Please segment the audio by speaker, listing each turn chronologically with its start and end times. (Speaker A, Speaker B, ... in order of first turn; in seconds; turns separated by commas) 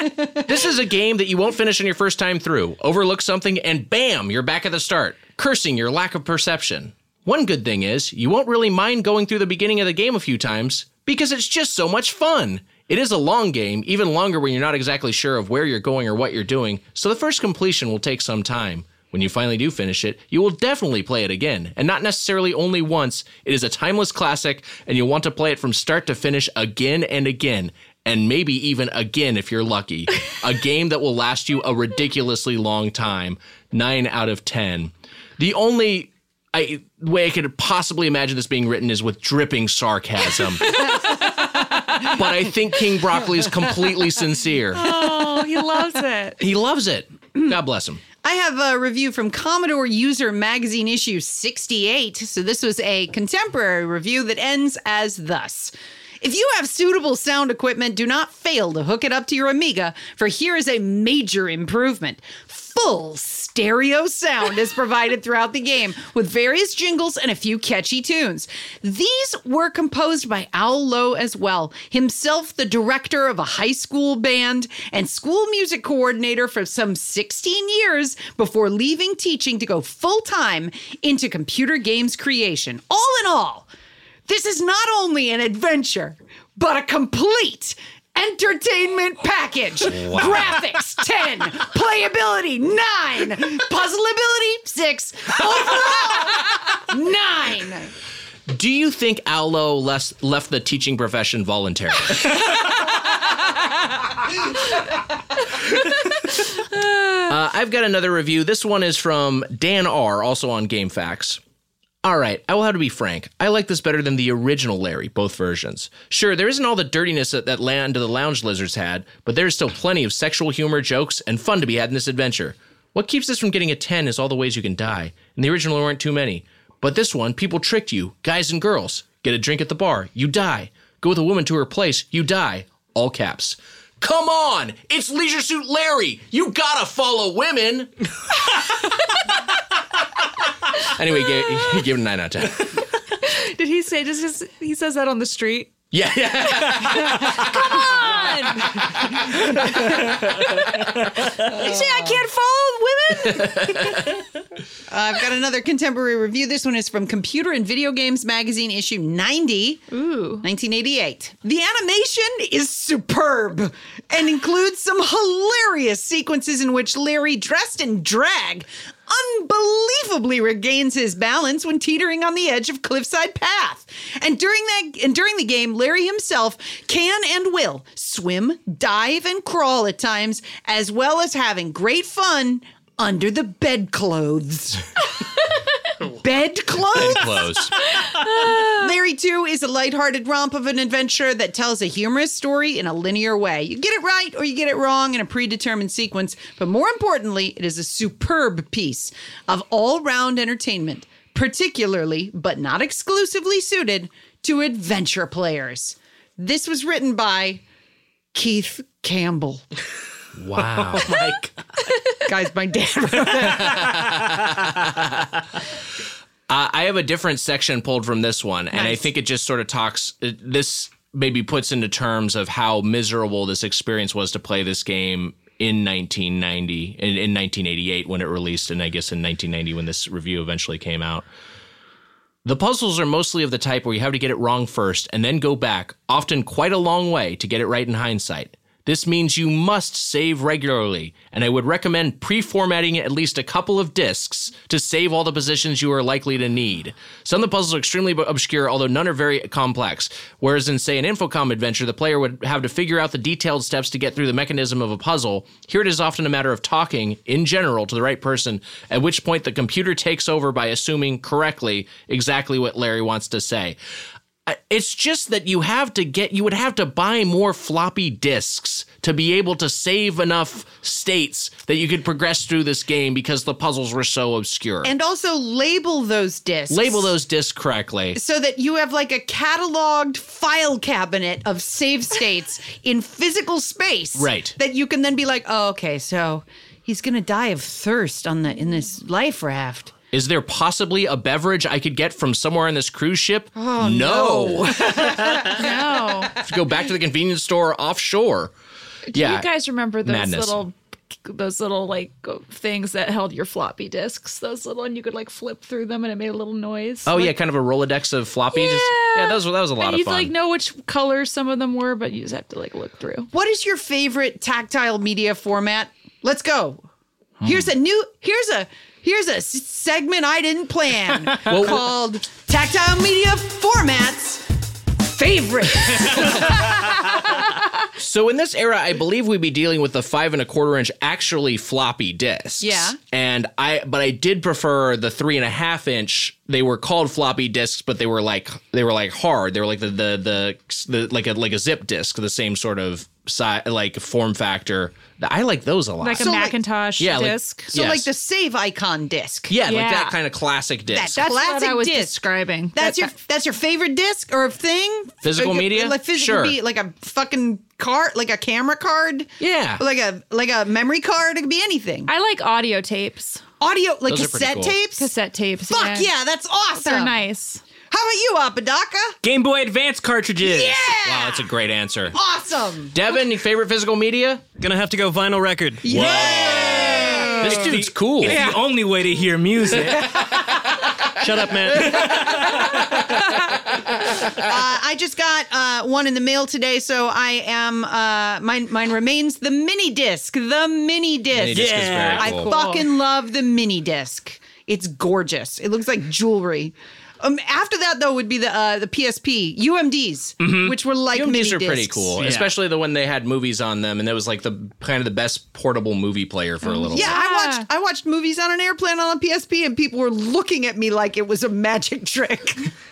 Speaker A: 0.4-41.1, Speaker A: 42.0-45.0, Speaker B: 44.7-46.4, Speaker A: 46.4-48.0, Speaker C: 48.2-83.7, Speaker C: 84.3-97.9, Speaker A: 89.8-90.6, Speaker A: 98.5-102.5, Speaker A: 107.2-111.4, Speaker A: 112.0-137.9, Speaker A: 140.7-142.8, Speaker B: 143.2-145.7, Speaker A: 145.9-148.3, Speaker B: 146.6-148.8, Speaker A: 149.3-149.7, Speaker B: 150.1-154.1, Speaker C: 151.4-152.2, Speaker A: 153.2-154.2, Speaker C: 154.9-159.8, Speaker B: 159.9-160.4, Speaker C: 160.4-184.8, Speaker C: 186.0-187.6, Speaker A: 186.9-187.8, Speaker B: 188.0-188.9, Speaker C: 188.1-207.6, Speaker C: 208.3-209.6, Speaker A: 210.3-211.1, Speaker D: 210.7-211.5, Speaker C: 212.2-214.3, Speaker A: 213.4-214.8, Speaker A: 216.5-231.2, Speaker C: 218.7-219.0, Speaker A: 232.4-263.8, Speaker A: 264.4-274.9, Speaker C: 274.8-277.1, Speaker A: 276.7-278.2, Speaker C: 278.1-289.9, Speaker A: 284.1-284.6, Speaker A: 290.1-295.6, Speaker C: 293.5-295.8, Speaker B: 295.5-296.3, Speaker A: 296.3-298.5, Speaker B: 299.1-307.3, Speaker A: 299.1-299.5, Speaker A: 300.0-300.6, Speaker A: 307.0-310.3, Speaker B: 308.5-313.3, Speaker C: 313.3-316.8, Speaker A: 317.4-317.7, Speaker C: 317.4-324.4, Speaker A: 321.4-321.8, Speaker C: 325.0-327.4, Speaker A: 328.0-346.4, Speaker C: 332.6-333.0, Speaker B: 346.0-347.7, Speaker C: 346.2-346.6, Speaker A: 347.0-348.1, Speaker C: 347.7-349.6, Speaker A: 349.5-351.2, Speaker B: 349.6-350.1, Speaker C: 350.9-352.1, Speaker B: 351.0-353.1, Speaker C: 352.7-362.1, Speaker A: 355.2-356.6, Speaker A: 359.4-359.8, Speaker B: 362.1-363.4, Speaker C: 363.6-365.1, Speaker A: 364.1-364.8, Speaker B: 365.0-366.1, Speaker C: 365.7-367.1, Speaker B: 366.7-367.6, Speaker C: 367.9-369.1, Speaker D: 369.2-370.9, Speaker C: 370.4-371.5, Speaker A: 371.0-372.1, Speaker C: 372.1-372.9, Speaker A: 372.9-374.4, Speaker E: 374.6-376.3, Speaker C: 375.8-377.7, Speaker A: 375.8-378.4, Speaker D: 376.6-380.3, Speaker C: 378.2-378.6, Speaker C: 379.9-380.4, Speaker E: 381.2-382.2, Speaker D: 381.7-383.0, Speaker C: 381.9-383.0, Speaker C: 384.1-402.2, Speaker A: 391.3-392.5, Speaker D: 391.5-392.4, Speaker B: 392.4-392.9, Speaker D: 400.4-400.8, Speaker A: 401.1-407.1, Speaker D: 402.2-402.5, Speaker B: 406.6-407.7, Speaker C: 406.9-412.7